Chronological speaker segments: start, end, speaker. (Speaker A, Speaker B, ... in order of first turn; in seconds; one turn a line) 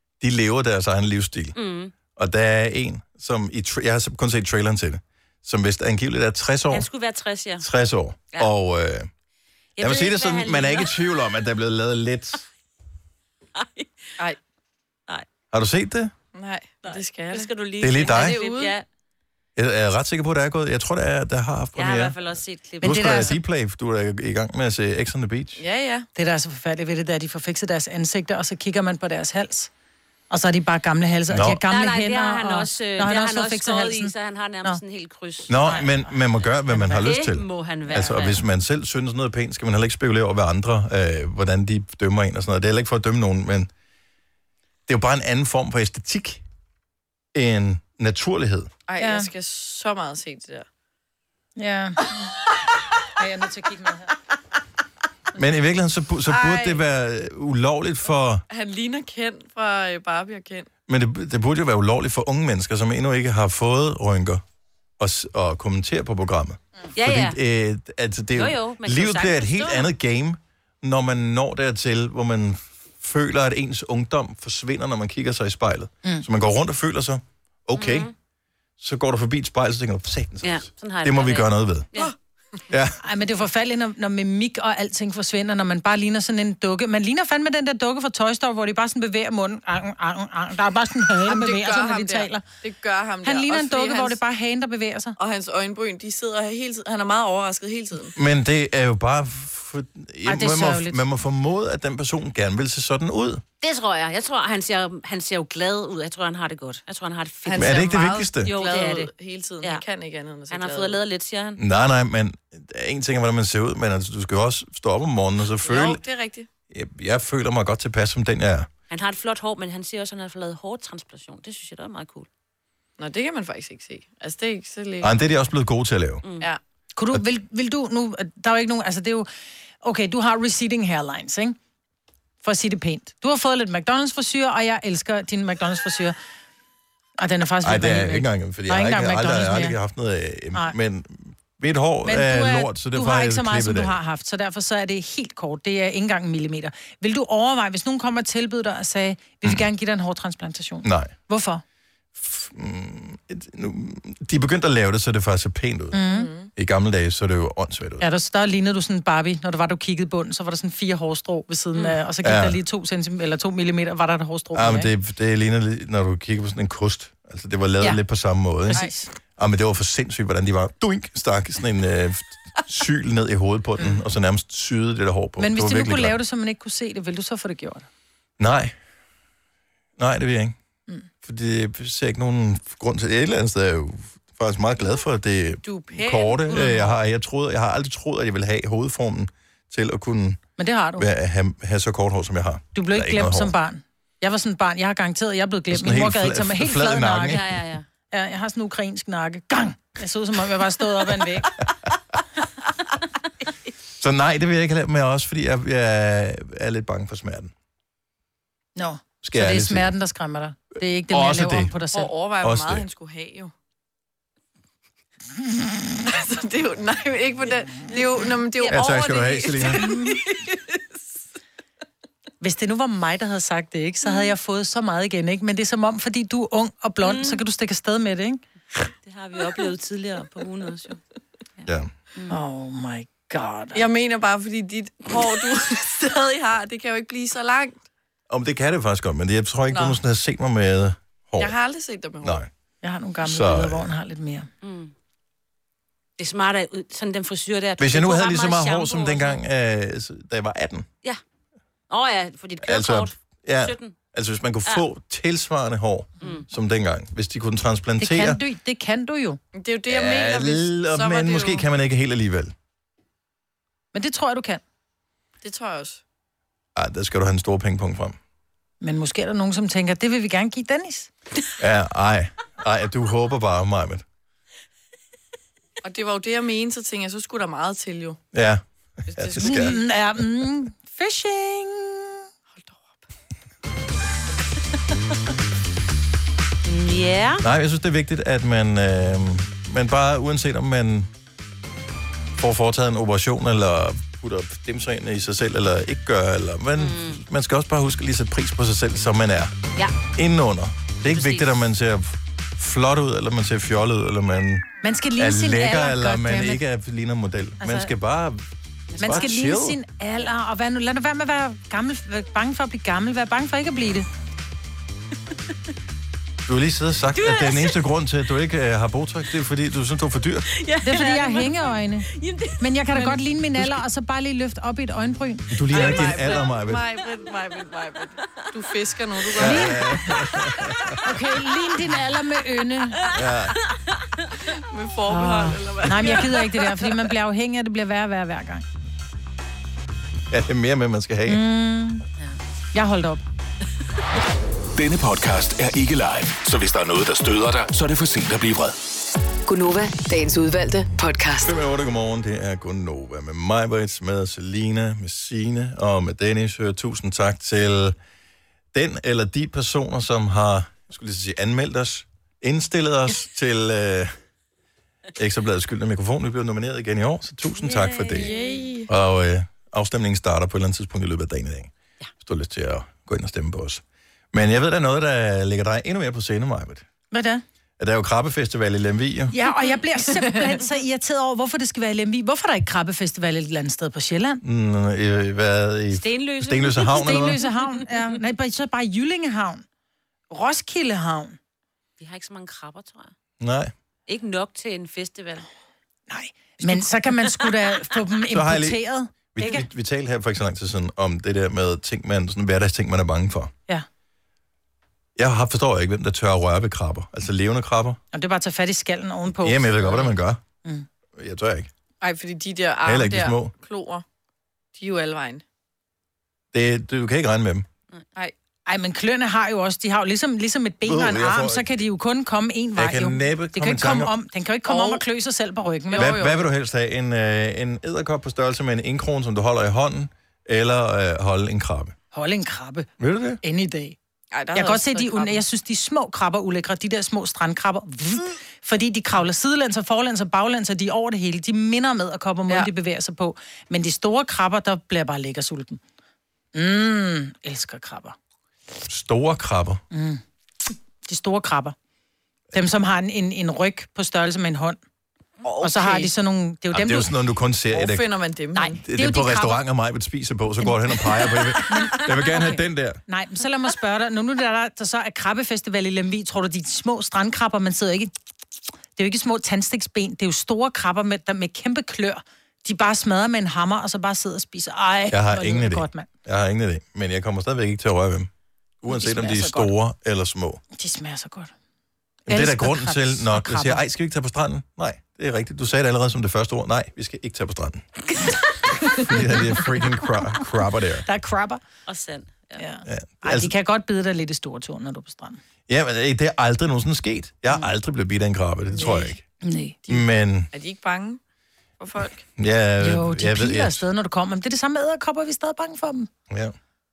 Speaker A: 0.2-1.6
Speaker B: 1.6-1.9
Speaker A: 2.2-6.9
Speaker B: 6.7-7.6
Speaker A: 7.6-9.1
Speaker B: 9.8-11.1
Speaker A: 9.8-12.4
Speaker B: 13.6-13.9
Speaker A: 15.5-16.1
Speaker C: 16.3-17.5
Speaker B: 16.8-18.9
Speaker A: 17.8-18.4
Speaker C: 18.0-18.7
Speaker A: 19.6-22.2
Speaker B: 21.7-23.4
Speaker D: 22.8-23.4
Speaker A: 22.8-25.6
Speaker C: 25.6-26.1
Speaker D: 26.2-29.7
Speaker D: 30.3-34.8
Speaker A: 31.3-31.6
Speaker B: 31.7-35.9
Speaker A: 35.5-43.7
Speaker D: 35.7-36.1
Speaker B: 36.7-38.4
Speaker A: 44.9-46.4
Speaker A: 47.3-48.7
Speaker C: 48.9-50.7
Speaker D: 49.0-49.3
Speaker D: 51.6-52.1
Speaker D: 53.2-54.1
Speaker A: 55.4-58.4
Speaker C: 56.2-56.8
Speaker C: 58.5-60.7
Speaker A: 60.9-64.4
Speaker A: 65.0-78.1
Speaker B: 67.0-67.4
Speaker B: 68.3-69.9
Speaker B: 77.7-78.1
Speaker A: 78.8-81.9
Speaker B: 80.4-82.1
Speaker A: 82.7-83.0
Speaker D: 83.0-92.5
Speaker C: 91.2-94.2
Speaker D: 93.2-95.1
Speaker C: 95.2-98.1
Speaker A: 98.2-103.4
Speaker D: 100.3-101.0
Speaker B: 103.6-109.9
Speaker C: 107.5-111.0
Speaker A: 107.6-108.5
Speaker B: 110.5-111.6
Speaker A: 111.6-116.0
Speaker C: 115.6-116.5
Speaker A: 116.7-118.7
Speaker B: 118.9-122.3
Speaker C: 123.0-125.3
Speaker A: 125.0-126.2
Speaker B: 126.2-126.5
Speaker D: 127.0-129.3
Speaker D: 129.8-131.6
Speaker D: 132.4-136.2
Speaker D: 137.2-139.8
Speaker A: 137.6-144.0
Speaker D: 142.1-151.6
Speaker A: 150.8-151.1
Speaker A: 152.2-156.0
Speaker D: 155.9-156.3
Speaker C: 156.1-156.5
Speaker A: 156.6-158.1
Speaker D: 158.0-164.9
Speaker A: 162.2-162.6
Speaker A: 164.6-176.2
Speaker D: 168.7-169.1
Speaker D: 175.4-177.9
Speaker A: 178.4-178.7
Speaker A: 180.0-180.6
Speaker A: 181.2-190.4
Speaker D: 185.7-186.9
Speaker D: 190.6-191.1
Speaker A: 191.0-193.5
Speaker D: 192.7-197.4
Speaker A: 195.7-197.6
Speaker B: 197.3-197.8
Speaker D: 198.1-201.5
Speaker A: 204.0-207.5
Speaker D: 208.8-212.1
Speaker A: 209.2-209.9
Speaker A: 211.1-211.7
Speaker C: 211.9-213.5
Speaker A: 212.4-212.9
Speaker C: 216.1-220.6
Speaker B: 218.6-219.8
Speaker A: 218.7-219.9
Speaker D: 222.4-228.4
Speaker B: 227.0-227.4
Speaker B: 229.1-231.0
Speaker B: 231.6-232.4
Speaker D: 232.3-233.8
Speaker C: 233.7-237.8
Speaker A: 238.3-241.6
Speaker C: 239.7-240.0
Speaker C: 241.4-242.5
Speaker A: 242.2-242.5
Speaker D: 242.8-244.5
Speaker A: 243.2-243.9
Speaker B: 244.6-244.9
Speaker B: 246.2-249.4
Speaker A: 247.8-250.9
Speaker B: 251.9-253.9
Speaker A: 252.6-258.4
Speaker B: 256.2-256.4
Speaker D: 258.0-259.4
Speaker C: 259.5-261.7
Speaker A: 259.9-262.5
Speaker D: 263.9-264.6
Speaker C: 265.4-266.0
Speaker A: 266.7-268.2
Speaker D: 268.8-271.1
Speaker A: 271.6-274.1
Speaker C: 275.8-278.2
Speaker A: 278.3-279.7
Speaker C: 279.1-279.8
Speaker D: 279.4-282.2
Speaker C: 282.5-283.0
Speaker B: 286.7-287.4
Speaker A: 287.4-291.1
Speaker A: 292.4-299.5
Speaker B: 296.8-297.2
Speaker A: 300.1-308.4
Speaker B: 301.1-301.6
Speaker D: 304.8-306.6
Speaker D: 307.6-307.9
Speaker B: 308.9-309.3
Speaker A: 309.0-309.8
Speaker D: 309.0-314.1
Speaker A: 316.4-320.5
Speaker B: 317.2-317.8
Speaker B: 320.5-323.2
Speaker D: 320.8-325.6
Speaker A: 325.5-326.9
Speaker C: 325.7-329.9
Speaker A: 329.4-330.9
Speaker D: 329.4-329.9
Speaker D: 331.0-333.1
Speaker A: 333.1-333.6
Speaker C: 334.7-336.6
Speaker D: 335.1-338.6
Speaker A: 340.3-341.4
Speaker D: 341.3-342.1
Speaker D: 342.7-343.2
Speaker E: 344.7-348.8
Speaker F: 349.5-351.5
Speaker A: 351.4-357.9
Speaker A: 358.7-364.1
Speaker A: 365.2-368.3
Speaker B: 367.6-368.7
Speaker C: 368.1-368.9
Speaker A: 368.9-373.8
Speaker A: 374.3-376.8
Speaker D: 377.1-377.4
Speaker A: 377.8-379.3
Speaker D: 379.3-384.4
Speaker C: 380.1-380.4
Speaker A: 384.4-387.4
Speaker B: 385.9-387.4
Speaker D: 386.9-389.6
Speaker D: 390.3-391.4
Speaker B: 392.0-393.1
Speaker A: 393.4-393.7
Speaker B: 394.1-395.4
Speaker D: 396.1-399.6
Speaker A: 398.3-398.8
Speaker A: 399.3-403.5
Speaker A: 405.2-408.0
Speaker D: 408.1-410.1
Speaker A: 409.4-410.4
Speaker A: 411.2-411.7
Speaker C: 412.0-414.0
Speaker A: 412.9-413.5
Speaker C: 414.7-415.4
Speaker A: 416.5-417.7
Speaker D: 418.7-426.3
Speaker A: 420.8-421.8
Speaker A: 422.8-424.1
Speaker C: 424.6-425.0
Speaker C: 425.9-426.5
Speaker A: 425.9-431.9
Speaker D: 432.1-432.9
Speaker A: 433.0-433.4
Speaker D: 433.4-433.9
Speaker C: 434.3-435.4
Speaker D: 434.5-445.8
Speaker D: 446.5-448.2
Speaker A: 448.9-449.8
Speaker D: 449.9-450.2
Speaker D: 451.1-451.7
Speaker D: 452.5-454.8
Speaker C: 455.4-456.1
Speaker D: 455.6-457.1
Speaker A: 456.7-458.1
Speaker C: 457.7-458.8
Speaker D: 458.5-459.6
Speaker A: 458.8-463.0
Speaker D: 460.6-468.1
Speaker D: 468.9-476.1
Speaker A: 475.1-478.3
Speaker A: 478.8-480.6
Speaker D: 478.9-479.7
Speaker D: 480.7-481.5
Speaker D: 482.3-483.8
Speaker A: 482.3-487.9
Speaker D: 489.0-489.4
Speaker A: 489.0-491.1
Speaker D: 491.1-491.6
Speaker B: 491.9-492.6
Speaker D: 492.6-495.4
Speaker A: 492.9-493.5
Speaker A: 495.7-499.2
Speaker C: 498.7-499.2
Speaker D: 499.4-499.8
Speaker A: 499.9-500.5
Speaker C: 499.9-501.2
Speaker C: 501.8-502.2
Speaker A: 502.4-503.9
Speaker D: 502.8-506.1
Speaker A: 506.3-506.6